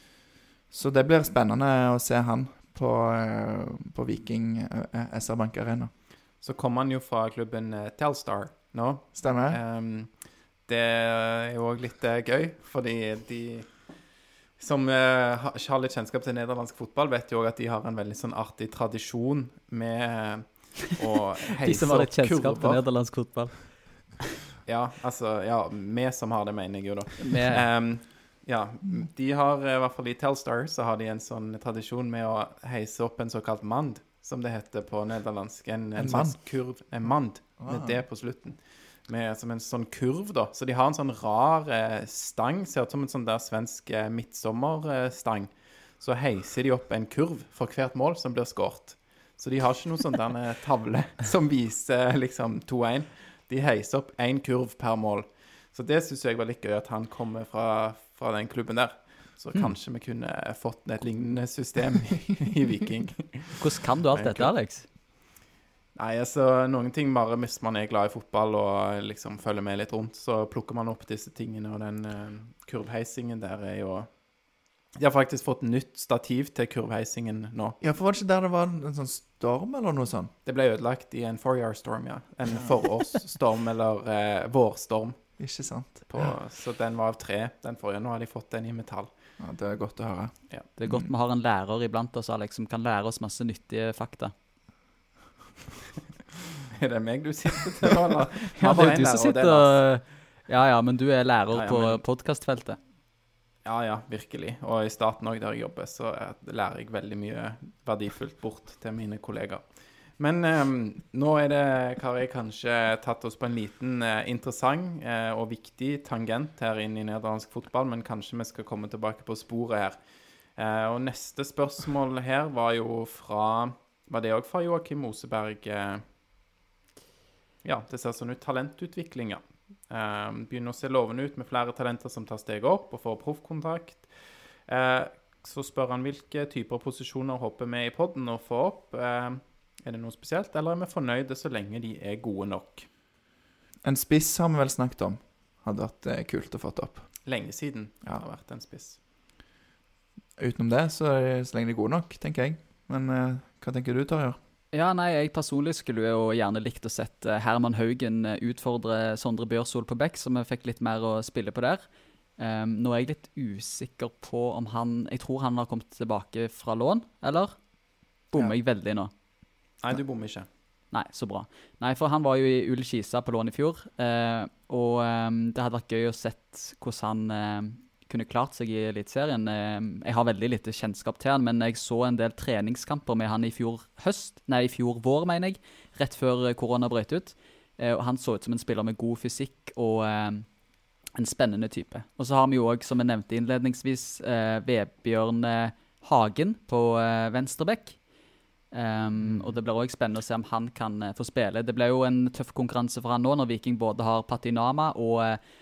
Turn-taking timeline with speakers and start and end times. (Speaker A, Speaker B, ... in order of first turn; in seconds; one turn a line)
Speaker A: 0.7-5.9
Speaker B: 6.4-13.9
Speaker A: 9.1-9.6
Speaker B: 14.6-22.8
Speaker C: 21.6-24.2
Speaker B: 24.6-63.6
Speaker C: 27.2-27.6
Speaker A: 36.0-36.4
Speaker A: 37.6-38.0
Speaker C: 63.6-64.9
Speaker B: 64.1-64.5
Speaker B: 65.9-74.2
Speaker B: 74.9-77.8
Speaker A: 77.8-80.3
Speaker B: 80.5-85.2
Speaker A: 85.4-86.3
Speaker B: 86.1-89.1
Speaker A: 89.4-91.1
Speaker C: 90.8-94.3
Speaker B: 96.7-99.8
Speaker C: 98.6-102.8
Speaker B: 101.5-102.0
Speaker B: 103.6-109.6
Speaker B: 110.2-120.0
Speaker B: 120.6-126.0
Speaker B: 127.6-142.9
Speaker A: 143.8-147.1
Speaker B: 147.2-149.0
Speaker A: 150.4-154.4
Speaker C: 154.7-161.9
Speaker C: 162.4-167.6
Speaker C: 168.3-169.1
Speaker B: 169.8-170.5
Speaker C: 170.9-190.5
Speaker C: 191.1-198.0
Speaker C: 198.7-205.4
Speaker B: 199.2-199.6